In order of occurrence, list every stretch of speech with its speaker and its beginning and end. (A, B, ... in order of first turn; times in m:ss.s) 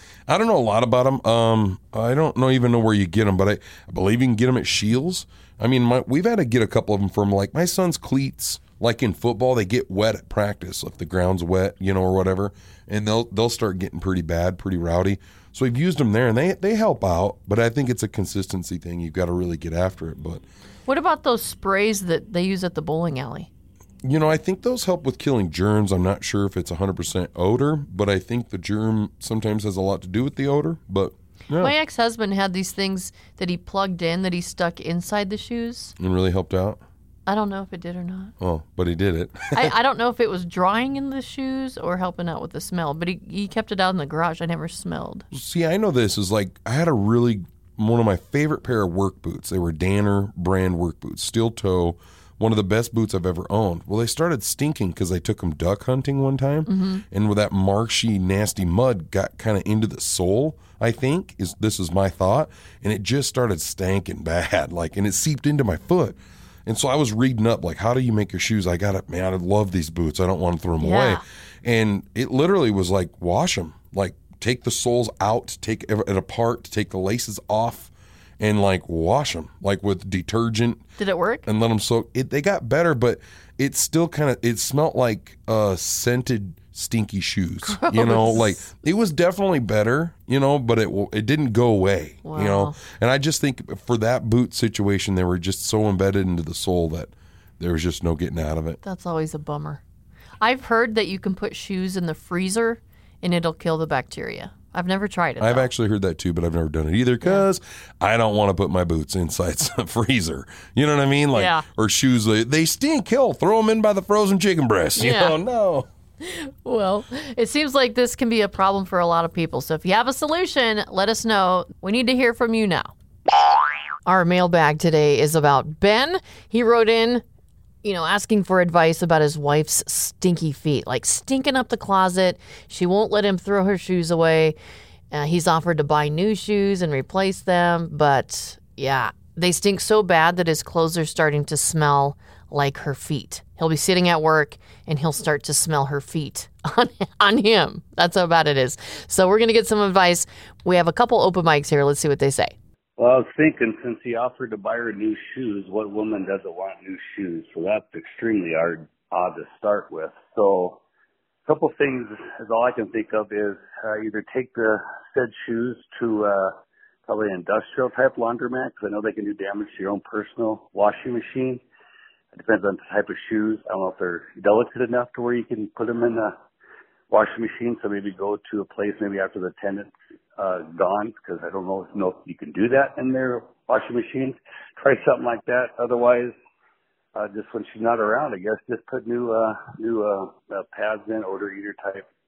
0:00.3-0:20.4 A
0:20.9-0:23.5 B
0:24.0-0:31.7 A
0:31.6-0:35.9 B
0:36.0-0:36.8 A
0:37.2-0:38.3 B
0:38.4-0:39.7 A
0:39.5-0:45.3 B
0:45.3-1:20.8 A
0:56.7-0:57.0 B
1:10.8-1:11.2 B
1:21.0-1:21.4 B
1:21.4-1:38.8 A
1:27.6-1:28.6 B
1:32.2-1:32.8 B
1:38.8-1:39.8 B
1:40.4-1:45.7 B
1:45.4-1:55.9 A
1:51.3-1:51.6 B
1:55.0-1:55.4 B
1:56.2-2:02.9 B
2:04.0-2:07.2 B
2:07.8-2:14.6 B
2:15.1-2:32.5 B
2:33.0-2:40.8 C
2:41.4-2:46.5 C
2:47.1-2:51.6 C
2:52.3-2:56.3 C
2:57.1-3:06.3 C
3:07.1-3:12.0 C